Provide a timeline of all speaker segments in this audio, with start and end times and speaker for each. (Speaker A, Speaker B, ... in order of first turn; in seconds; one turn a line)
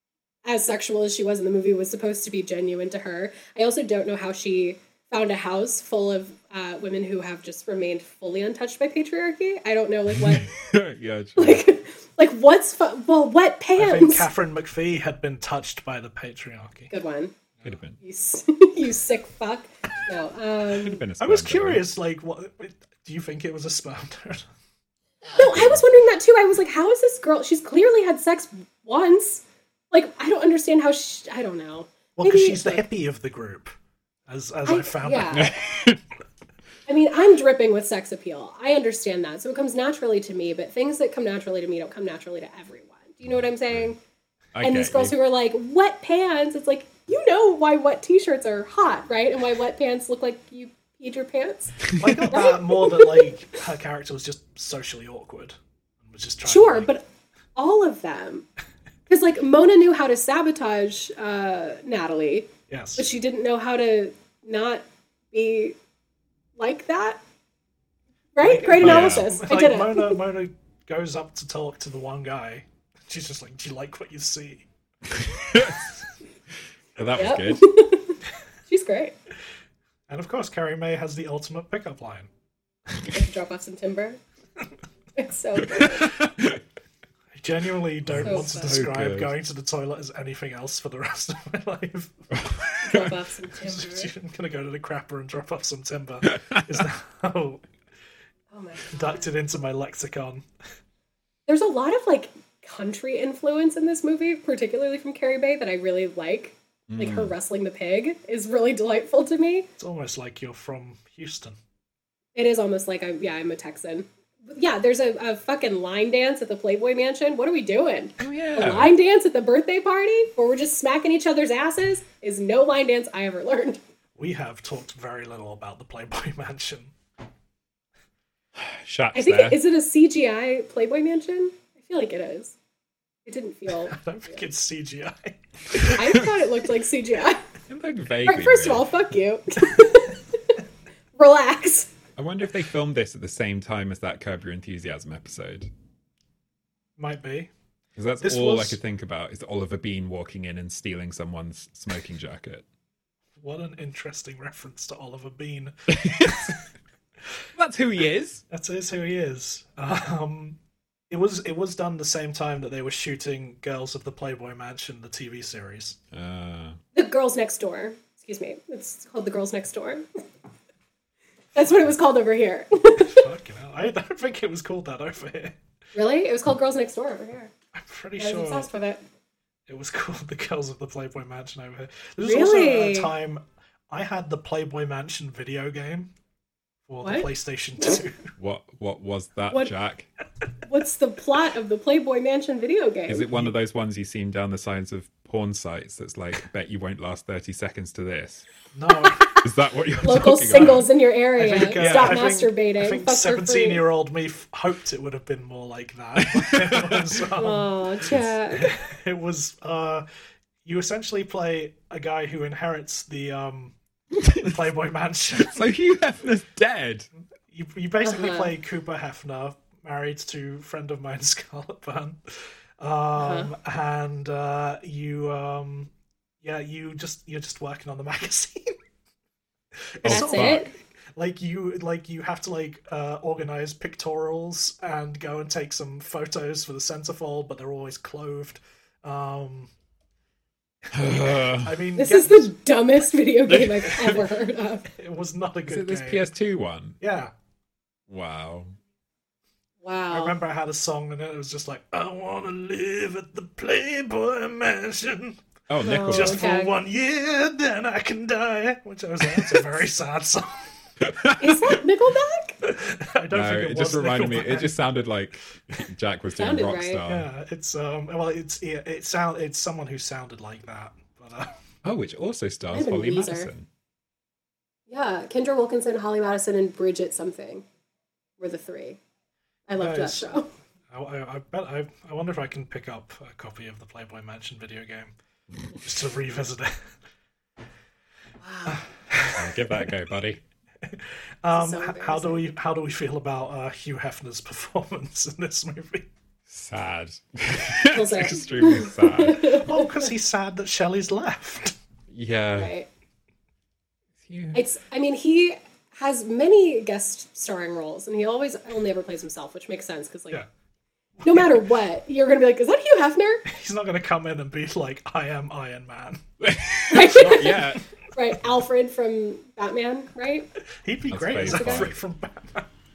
Speaker A: 0.4-10.5
Speaker B: 10.1-11.7
Speaker A: 11.4-14.3
Speaker C: 13.8-16.9
Speaker A: 16.9-17.3
Speaker B: 17.6-18.0
Speaker A: 18.0-21.0
Speaker B: 20.7-21.9
Speaker C: 21.2-24.4
Speaker A: 25.3-32.8
Speaker B: 25.3-25.8
Speaker C: 32.2-33.7
Speaker C: 34.3-35.5
Speaker A: 34.7-35.5
Speaker B: 35.3-36.0
Speaker A: 36.9-44.0
Speaker B: 43.3-43.9
Speaker B: 44.5-45.1
Speaker A: 44.6-53.3
Speaker C: 51.9-56.9
Speaker A: 56.4-57.0
Speaker A: 57.5-58.5
Speaker A: 59.1-65.7
Speaker C: 62.7-63.1
Speaker A: 66.6-67.2
Speaker A: 68.3-70.2
Speaker C: 68.4-74.7
Speaker B: 68.8-69.3
Speaker B: 75.1-76.0
Speaker B: 77.0-77.6
Speaker A: 77.1-79.1
Speaker C: 80.1-82.3
Speaker A: 83.0-84.2
Speaker A: 85.2-86.2
Speaker B: 85.6-86.6
Speaker C: 87.3-92.5
Speaker B: 88.0-89.3
Speaker A: 88.2-88.8
Speaker B: 92.3-93.2
Speaker A: 92.8-94.1
Speaker C: 93.6-97.7
Speaker B: 96.2-96.8
Speaker A: 98.5-99.3
Speaker C: 98.9-100.4
Speaker A: 101.5-109.7
Speaker B: 106.9-107.3
Speaker C: 109.8-111.5
Speaker A: 112.3-123.8
Speaker B: 118.2-118.9
Speaker C: 124.2-126.9
Speaker B: 128.6-129.6
Speaker A: 129.1-132.5
Speaker A: 133.2-134.4
Speaker C: 133.9-136.3
Speaker B: 135.8-136.3
Speaker A: 135.9-137.5
Speaker B: 137.7-138.9
Speaker A: 138.2-140.6
Speaker A: 141.2-141.9
Speaker B: 142.2-145.7
Speaker C: 147.0-147.5
Speaker B: 147.9-152.6
Speaker C: 148.2-148.8
Speaker C: 153.4-156.6
Speaker B: 155.9-156.6
Speaker B: 157.6-158.4
Speaker C: 158.5-160.6
Speaker C: 161.1-166.0
Speaker B: 166.1-166.8
Speaker A: 166.9-170.1
Speaker A: 171.5-173.3
Speaker C: 173.0-175.6
Speaker A: 175.9-177.5
Speaker C: 177.7-178.7
Speaker A: 178.2-179.0
Speaker C: 179.7-186.1
Speaker A: 182.2-183.1
Speaker C: 186.9-188.3
Speaker A: 187.0-187.3
Speaker B: 188.4-190.1
Speaker A: 190.7-193.3
Speaker B: 193.1-198.4
Speaker C: 198.7-199.5
Speaker B: 199.3-200.9
Speaker A: 200.0-203.8
Speaker C: 201.4-207.8
Speaker B: 201.6-202.2
Speaker B: 206.2-207.2
Speaker A: 207.4-208.7
Speaker B: 208.1-208.3
Speaker C: 208.5-210.0
Speaker C: 210.6-215.7
Speaker B: 214.2-214.5
Speaker B: 215.4-217.1
Speaker C: 217.5-225.9
Speaker A: 218.0-218.5
Speaker A: 223.2-223.5
Speaker C: 226.4-228.8
Speaker C: 229.9-239.7
Speaker B: 230.0-230.7
Speaker A: 230.0-230.7
Speaker C: 240.9-242.5
Speaker B: 240.9-241.8
Speaker A: 242.0-244.9
Speaker C: 243.5-244.3
Speaker C: 244.9-246.3
Speaker B: 245.7-247.0
Speaker C: 247.0-247.3
Speaker B: 248.1-248.7
Speaker A: 249.8-250.4
Speaker C: 250.1-255.4
Speaker B: 255.7-256.4
Speaker A: 255.8-256.8
Speaker C: 256.0-260.8
Speaker B: 259.2-259.6
Speaker B: 261.0-261.8
Speaker A: 261.4-262.6
Speaker C: 262.6-264.8
Speaker B: 263.3-267.3
Speaker A: 266.3-267.0
Speaker C: 267.1-271.5
Speaker B: 271.8-273.7
Speaker A: 272.7-273.5
Speaker A: 274.9-277.6
Speaker A: 278.4-279.0
Speaker A: 279.7-280.5
Speaker C: 279.8-280.3
Speaker C: 280.9-285.1
Speaker C: 285.7-286.9
Speaker A: 288.4-288.8
Speaker C: 288.7-289.8
Speaker B: 289.4-290.4
Speaker C: 290.8-296.1
Speaker A: 291.5-292.4
Speaker B: 296.5-299.6
Speaker A: 297.9-300.1
Speaker C: 299.5-301.7
Speaker B: 302.1-302.7
Speaker A: 302.6-302.9
Speaker B: 304.2-304.6
Speaker A: 304.5-310.4
Speaker C: 311.2-311.6
Speaker A: 311.2-313.4
Speaker C: 313.4-316.2
Speaker B: 316.4-317.8
Speaker A: 316.9-320.5
Speaker C: 320.8-322.7
Speaker B: 321.1-322.0
Speaker A: 321.4-321.9